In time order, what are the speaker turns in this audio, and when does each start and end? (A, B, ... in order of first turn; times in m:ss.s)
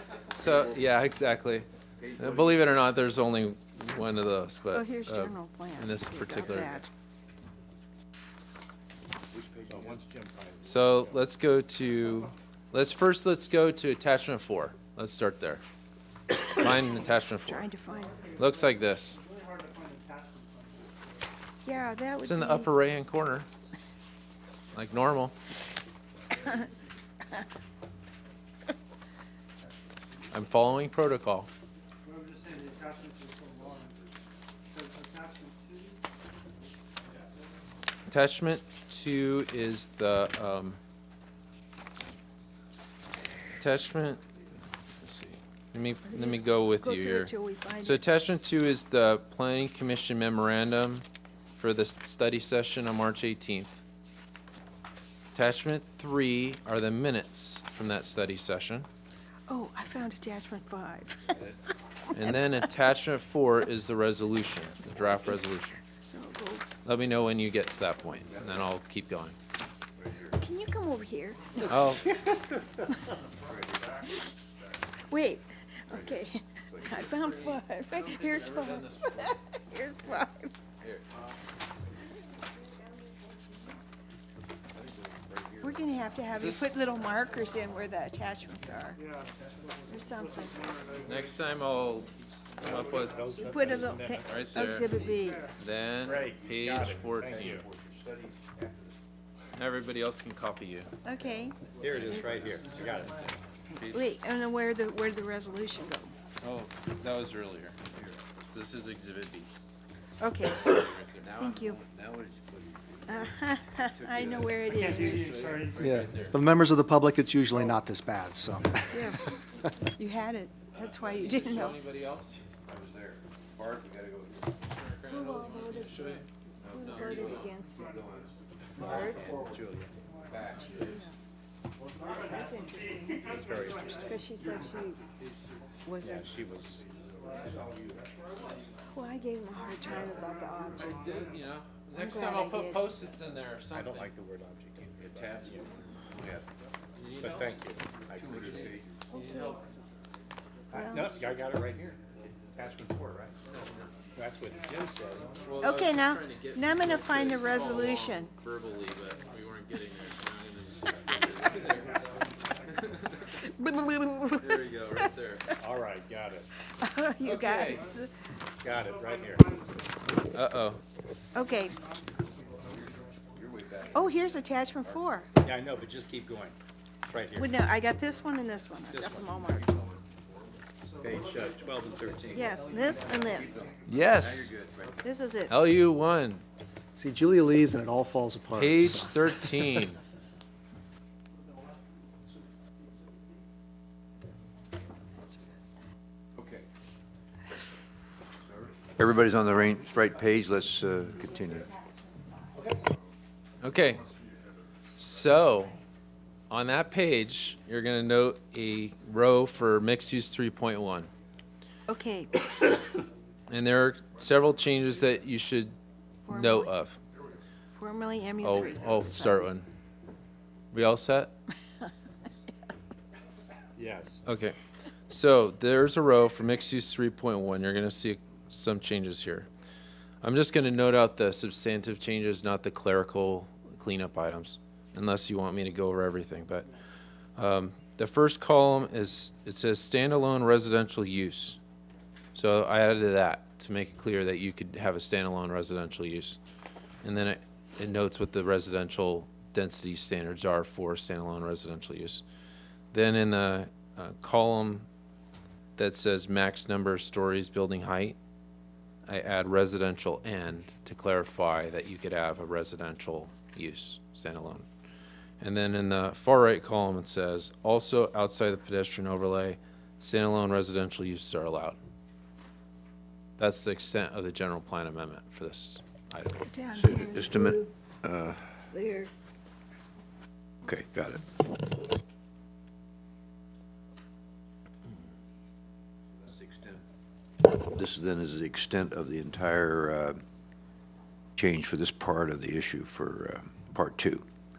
0:00.3-0:06.8 A
0:00.4-0:00.8 B
0:02.0-0:02.6 B
0:04.7-0:06.9 C
0:09.3-0:10.0 B
0:09.7-0:11.2 D
0:10.6-0:15.6 A
0:16.4-0:16.7 C
0:16.5-0:17.7 A
0:17.4-0:18.3 C
0:18.0-0:21.3 E
0:18.4-0:19.2 A
0:21.6-0:22.7 C
0:22.2-0:23.5 A
0:24.7-0:25.4 A
0:30.3-0:31.5 A
0:32.0-0:34.0 E
0:34.7-0:36.1 E
0:38.1-0:40.8 A
0:43.6-0:44.2 A
0:45.0-0:53.8 A
0:46.0-0:48.0 C
0:55.3-0:58.9 A
0:59.5-1:01.4 C
1:02.1-1:05.8 A
1:02.1-1:02.7 C
1:06.0-1:06.6 C
1:06.8-1:09.4 A
1:08.3-1:08.7 B
1:10.0-1:10.4 B
1:10.4-1:13.1 C
1:11.6-1:12.1 A
1:13.4-1:14.1 B
1:15.0-1:20.5 C
1:15.9-1:17.3 B
1:16.9-1:19.4 A
1:24.7-1:26.2 B
1:25.6-1:29.0 C
1:26.3-1:26.8 A
1:29.0-1:31.4 E
1:29.9-1:30.7 C
1:31.0-1:33.7 A
1:32.6-1:34.6 D
1:32.6-1:33.3 E
1:33.1-1:35.5 C
1:34.2-1:34.9 A
1:35.1-1:35.6 E
1:35.5-1:37.6 A
1:36.0-1:37.7 D
1:36.0-1:39.0 B
1:39.5-1:40.9 A
1:41.0-1:42.6 C
1:41.8-1:43.3 D
1:41.8-1:42.6 B
1:41.9-1:44.2 A
1:42.6-1:43.3 E
1:43.7-1:46.1 C
1:46.4-1:47.8 A
1:47.9-1:48.2 B
1:48.4-1:49.5 A
1:50.2-1:51.8 C
1:50.5-1:51.4 A
1:50.6-1:54.9 B
1:53.1-1:55.4 C
1:54.7-1:55.8 E
1:55.0-1:56.4 A
1:55.8-1:59.4 F
1:58.9-2:01.8 C
2:00.8-2:02.5 A
2:02.6-2:04.7 B
2:04.7-2:07.5 A
2:05.1-2:08.0 C
2:06.6-2:08.4 B
2:07.5-2:09.3 E
2:08.8-2:10.0 D
2:08.8-2:09.2 C
2:09.0-2:11.0 B
2:10.0-2:10.9 E
2:10.8-2:11.1 C
2:11.9-2:15.1 E
2:12.1-2:13.3 C
2:13.2-2:14.2 D
2:13.9-2:15.0 C
2:15.8-2:16.3 C
2:16.0-2:18.0 D
2:16.8-2:18.7 E
2:17.4-2:17.8 B
2:18.9-2:21.0 C
2:19.7-2:21.5 E
2:20.8-2:24.1 A
2:21.9-2:22.9 C
2:23.7-2:25.7 D
2:25.0-2:26.5 B
2:27.0-2:28.8 A
2:27.2-2:28.8 D
2:28.0-2:29.2 B
2:29.1-2:29.6 C
2:29.3-2:29.7 E
2:30.7-2:33.4 D
2:30.7-2:31.1 C
2:30.9-2:32.5 E
2:33.4-2:35.7 E
2:33.5-2:33.9 A
2:34.2-2:35.4 D
2:35.4-2:43.4 A
2:35.6-2:38.3 C
2:38.9-2:39.5 E
2:41.1-2:43.4 E
2:43.3-2:45.1 C
2:44.3-2:45.5 A
2:44.4-2:45.1 B
2:45.6-2:46.5 D
2:46.7-2:48.1 C
2:47.2-2:47.9 A
2:48.6-2:49.5 D
2:48.8-2:50.1 E
2:50.2-2:50.8 A
2:51.3-2:51.8 C
2:51.4-2:53.4 E
2:52.6-2:55.6 B
2:53.9-2:55.3 C
2:55.4-2:56.6 D
2:57.1-2:57.5 D
2:57.4-2:59.8 C
2:58.9-2:59.4 D
2:59.4-3:00.8 B
3:00.9-3:03.8 E
3:01.0-3:03.3 D
3:02.3-3:03.7 C
3:03.2-3:05.1 B
3:03.8-3:04.5 A
3:05.0-3:05.6 C
3:05.5-3:06.4 A
3:07.0-3:09.8 F
3:08.5-3:10.0 A
3:16.4-3:16.7 B
3:18.4-3:21.7 B
3:23.6-3:24.1 A
3:25.0-3:25.8 A
3:26.5-3:31.1 A
3:31.9-3:32.5 C
3:33.5-3:35.7 A
3:36.3-3:36.7 C
3:36.3-3:37.0 A
3:37.8-3:39.5 C
3:38.4-3:39.7 A
3:40.7-3:41.3 A
3:43.8-3:44.2 D
3:44.2-3:44.6 A
3:45.1-3:49.5 A
3:50.2-3:56.7 A
3:57.4-4:01.6 A
4:02.3-4:06.4 A
4:07.0-4:12.2 A
4:12.9-4:14.9 A
4:15.8-4:18.2 A
4:19.0-4:24.7 A
4:25.4-4:31.8 A
4:33.4-4:36.4 A
4:36.4-4:37.7 C
4:36.7-4:38.6 B
4:38.7-4:39.1 C
4:40.6-4:41.4 B
4:46.2-4:46.8 B
4:47.4-4:50.2 B
4:51.4-4:54.2 B